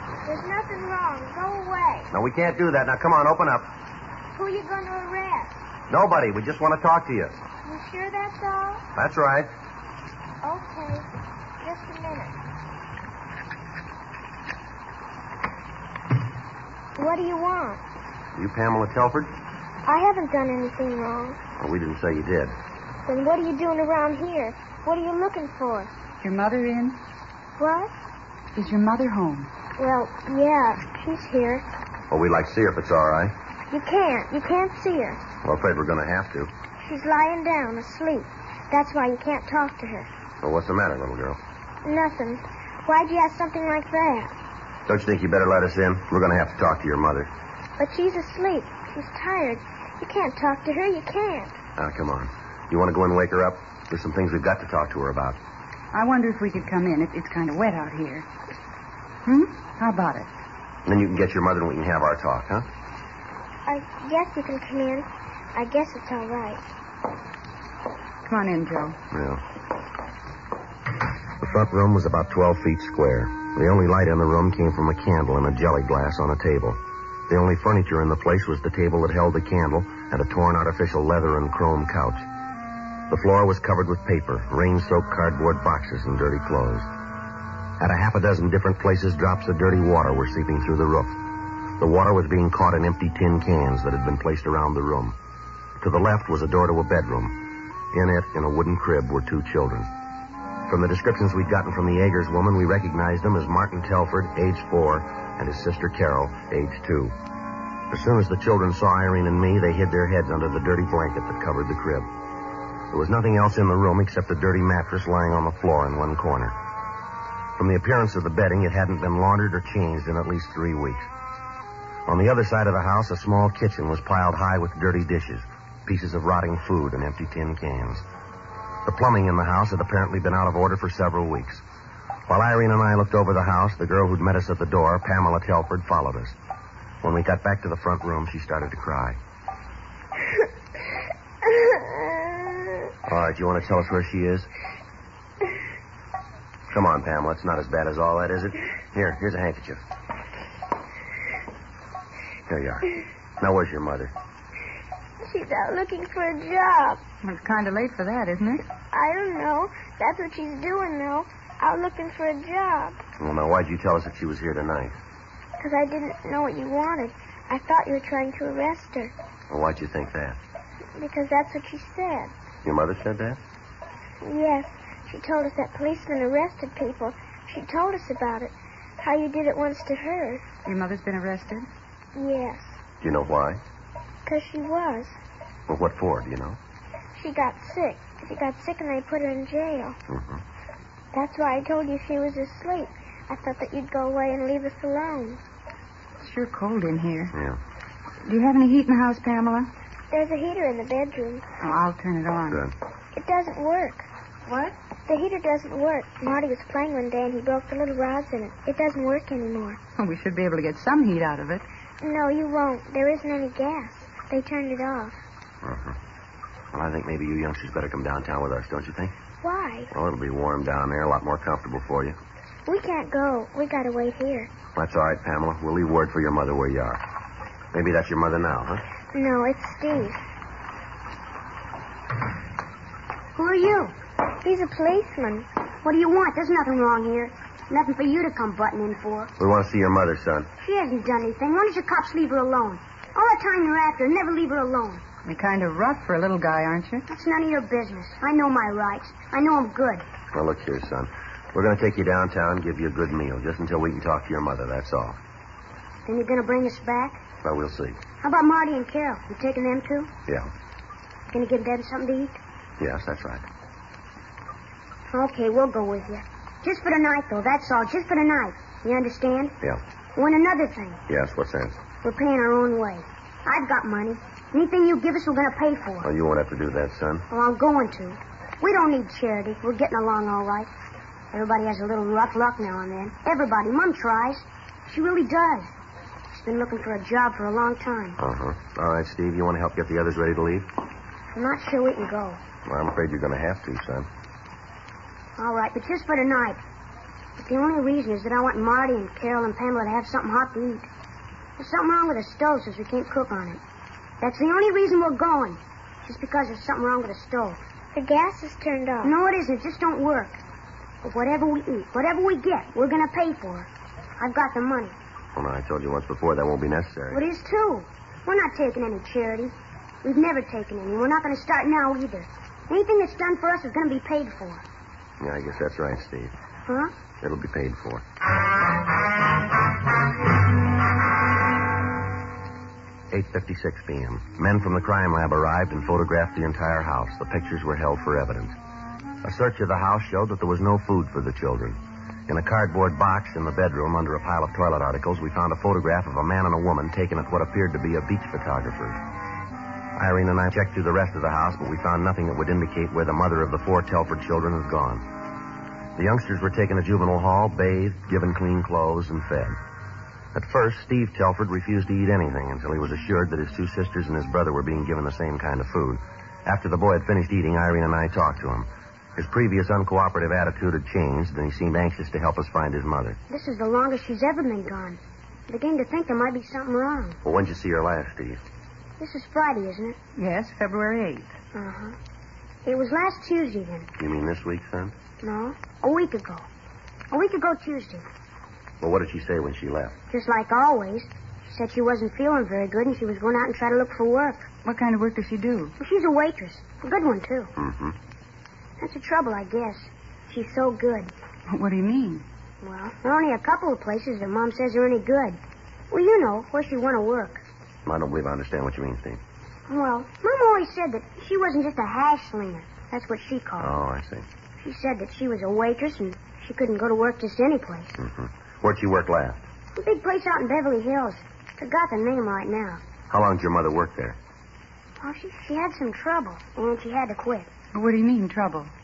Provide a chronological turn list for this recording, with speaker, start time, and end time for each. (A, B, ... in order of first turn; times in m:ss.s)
0:00.2-0:02.1 A
0:02.1-0:03.7 B
0:04.3-0:05.6 A
0:05.9-0:07.4 B
0:07.6-0:08.8 A
0:09.0-0:09.5 B
0:10.4-0:11.1 A
0:11.6-0:12.4 A
0:17.0-0:17.8 A
0:18.3-0:19.3 B
0:19.8-0:21.4 A
0:21.6-0:22.5 B
0:23.0-0:25.9 A
0:26.2-0:27.0 C
0:27.6-0:27.9 A
0:28.5-0:29.5 C
0:29.8-0:31.6 A
0:32.1-0:33.3 B
0:33.7-0:35.2 A
0:35.4-0:36.5 B
0:36.8-0:40.1 A
0:40.4-0:41.4 B
0:41.8-0:44.3 A
0:44.9-0:47.3 B
0:47.8-0:51.6 A
0:51.8-0:55.4 B
0:55.9-0:58.3 C
0:59.2-1:00.3 C
1:00.8-1:02.7 B
1:03.7-1:06.6 A
1:08.2-1:09.0 C
1:09.1-1:09.4 B
1:11.4-1:22.3 B
1:23.1-1:26.9 B
1:27.8-1:31.2 B
1:31.8-1:35.2 B
1:35.8-1:37.4 B
1:37.9-1:39.9 B
1:40.7-1:47.1 B
1:47.9-1:52.1 B
1:52.9-1:56.6 B
1:57.6-2:01.1 B
2:02.1-2:08.0 B
2:08.8-2:11.6 B
2:12.3-2:16.4 B
2:17.0-2:19.2 B
2:23.0-2:24.5 B
2:26.7-2:29.8 B
2:32.5-2:34.1 B
2:35.2-2:37.0 A
2:37.2-2:38.6 C
2:38.9-2:43.0 A
2:43.2-2:45.0 B
2:45.6-2:49.1 A
2:49.5-2:50.4 B
2:51.0-2:52.3 A
2:52.6-2:53.4 B
2:54.2-3:00.4 A
3:00.6-3:01.7 C
3:02.1-3:02.8 A
3:03.0-3:03.6 B
3:04.2-3:05.2 A
3:05.7-3:06.6 B
3:07.1-3:10.0 A
3:10.1-3:10.4 B
3:11.1-3:15.4 A
3:16.2-3:17.3 C
3:17.3-3:17.6 B
3:18.2-3:19.7 C
3:20.1-3:21.4 A
3:21.6-3:22.6 C
3:22.5-3:22.7 B
3:23.1-3:29.8 A
3:30.0-3:31.6 C
3:32.0-3:35.2 A
3:35.6-3:36.0 B
3:36.7-3:39.1 B
3:39.4-3:39.9 A
3:39.9-3:42.2 B
3:42.6-3:44.5 A
3:44.7-3:47.0 B
3:47.7-3:48.8 B
3:49.1-3:50.2 A
3:53.3-3:53.9 D
3:54.4-3:55.5 A
3:55.8-3:59.3 D
3:59.4-4:00.5 B
4:00.6-4:05.0 D
4:05.2-4:07.0 C
4:07.1-4:10.0 D
4:10.3-4:15.2 B
4:16.0-4:17.2 D
4:17.4-4:18.0 B
4:18.2-4:20.1 D
4:21.3-4:22.4 D
4:22.8-4:23.4 B
4:25.1-4:29.6 D
4:30.1-4:31.0 D
4:31.1-4:31.8 B
4:32.0-4:36.1 D
4:36.0-4:37.3 B
4:37.3-4:40.7 D
4:41.3-4:45.7 D
4:46.3-4:48.2 D
4:48.2-4:50.7 B
4:51.3-4:52.4 D
4:52.6-4:54.1 B
4:55.4-4:56.6 D
4:57.4-5:00.9 D
5:01.6-5:03.6 D
5:04.2-5:07.6 D
5:07.9-5:09.2 A
5:09.0-5:10.4 D
5:11.0-5:14.9 D
5:15.3-5:17.2 B
5:17.1-5:24.6 D
5:25.2-5:26.3 B
5:26.6-5:26.9 D
5:27.2-5:28.0 B
5:33.1-5:38.5 B
5:39.2-5:49.0 B
5:50.0-5:55.0 B
5:56.0-5:59.6 B
6:00.3-6:13.2 B
6:13.3-6:17.2 D
6:17.2-6:18.4 B
6:19.0-6:20.0 D
6:20.2-6:21.3 C
6:21.5-6:22.0 D
6:22.6-6:23.9 D
6:24.0-6:24.9 B
6:25.2-6:26.4 D
6:27.1-6:28.0 D
6:28.8-6:30.0 B
6:30.1-6:34.5 D
6:34.6-6:35.8 C
6:35.8-6:37.5 D
6:37.6-6:38.0 B
6:38.8-6:41.1 D
6:41.5-6:42.2 C
6:42.6-6:45.4 D
6:45.9-6:47.4 D
6:47.8-6:49.2 B
6:49.7-6:53.7 D
6:53.6-6:54.2 B
6:54.6-6:58.0 D
6:58.0-6:59.4 B
6:59.8-7:02.8 D
7:03.1-7:04.2 B
7:05.0-7:07.5 D
7:07.7-7:08.7 C